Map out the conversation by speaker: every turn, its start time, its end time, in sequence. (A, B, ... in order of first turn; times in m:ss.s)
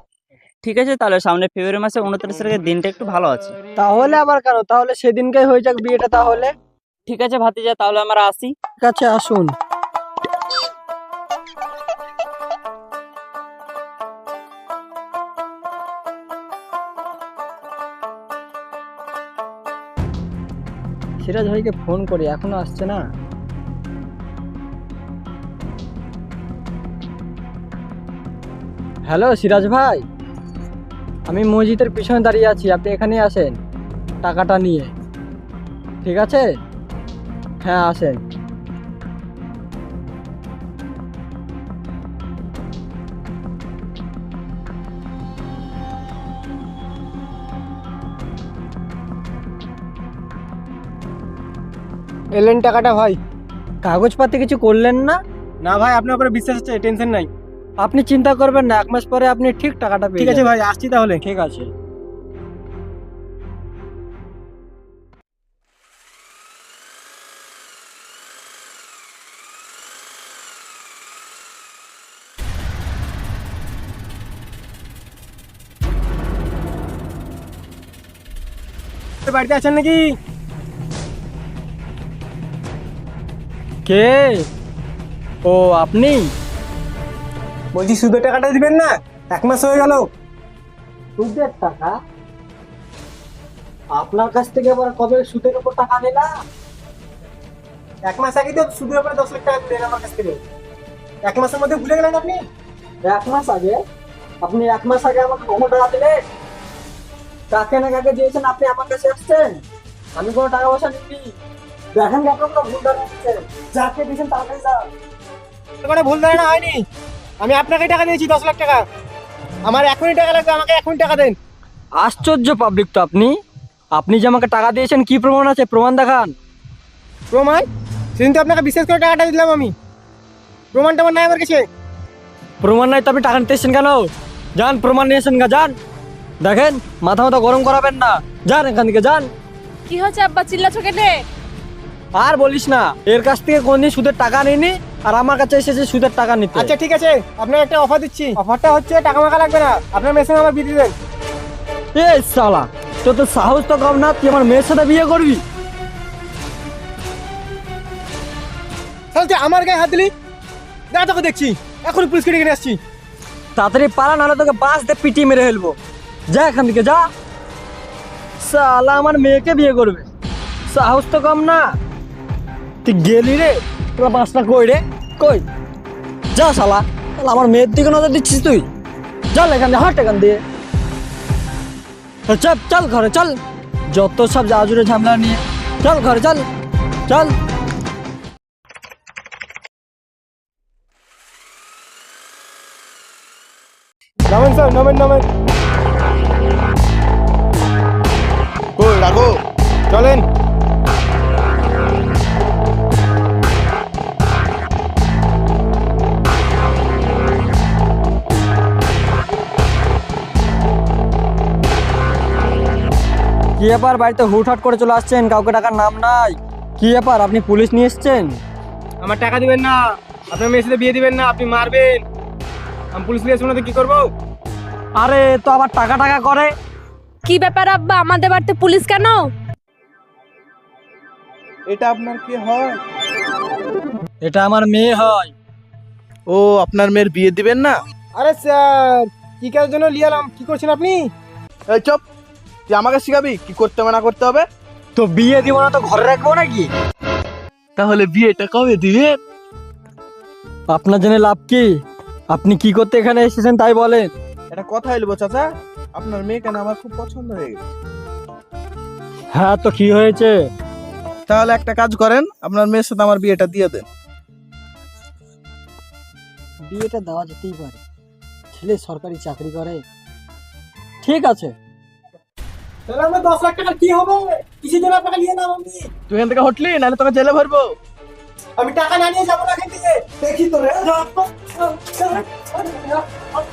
0:00.6-0:03.6 A
0:03.8-0:06.5 B
0:07.1-0:08.5 A
0:08.8-0:09.5 B
0:21.2-0:23.0 B
0:29.1-0:30.0 B
0:31.3-0:33.6 B
0:34.2-0:34.9 B
0:36.0-0:36.5 B
0:37.6-0:38.2 B
0:52.4-0:53.2 C
0:53.8-0:55.2 B
0:55.6-0:57.3 C
0:57.8-1:00.5 B
1:00.2-1:01.2 C
1:01.2-1:01.7 B
1:19.3-1:20.1 C
1:23.9-1:24.5 B
1:25.5-1:26.3 B
1:27.7-1:30.0 C
1:31.2-1:32.0 B
1:33.9-1:36.3 B
1:38.1-1:40.4 C
1:41.2-1:42.4 C
1:43.0-1:43.8 B
1:44.4-1:46.2 B
1:47.5-1:49.6 B
1:50.2-1:51.4 B
1:51.9-1:54.9 B
1:55.8-1:56.8 C
1:57.4-1:58.8 C
1:59.7-2:01.4 C
2:02.0-2:03.4 B
2:04.0-2:06.4 B
2:07.3-2:07.6 C
2:08.2-2:09.7 C
2:10.7-2:11.6 C
2:12.6-2:15.8 B
2:16.4-2:19.3 B
2:19.9-2:21.1 D
2:22.2-2:26.7 B
2:26.6-2:30.9 C
2:32.0-2:35.4 B
2:39.1-2:40.1 C
2:40.9-2:42.8 C
2:43.6-2:45.8 B
2:46.3-2:47.0 B
2:48.4-2:50.1 B
2:50.7-2:51.7 B
2:52.8-2:55.4 B
2:56.3-2:58.7 B
2:59.3-3:00.4 B
3:02.3-3:03.4 B
3:03.9-3:06.4 B
3:07.1-3:07.3 B
3:14.3-3:15.2 C
3:18.8-3:19.4 E
3:19.9-3:20.3 C
3:33.6-3:38.4 B
3:39.0-3:39.8 C
3:40.3-3:42.0 C
3:43.0-3:44.1 C
3:45.0-3:46.5 B
3:47.2-3:49.3 D
3:51.7-3:52.8 E
3:54.2-3:55.3 B
3:56.3-3:57.8 E
3:58.2-4:01.1 C
4:01.7-4:02.0 E
4:02.7-4:04.5 E
4:05.0-4:06.7 B
4:07.8-4:09.2 E
4:10.7-4:11.8 B
4:12.3-4:14.1 B
4:14.5-4:17.6 E
4:19.3-4:20.5 B
4:21.3-4:23.8 E
4:26.7-4:27.8 B
4:28.5-4:29.8 B
4:31.0-4:31.5 B
4:32.9-4:35.9 C
4:36.1-4:37.7 E
4:38.6-4:43.0 C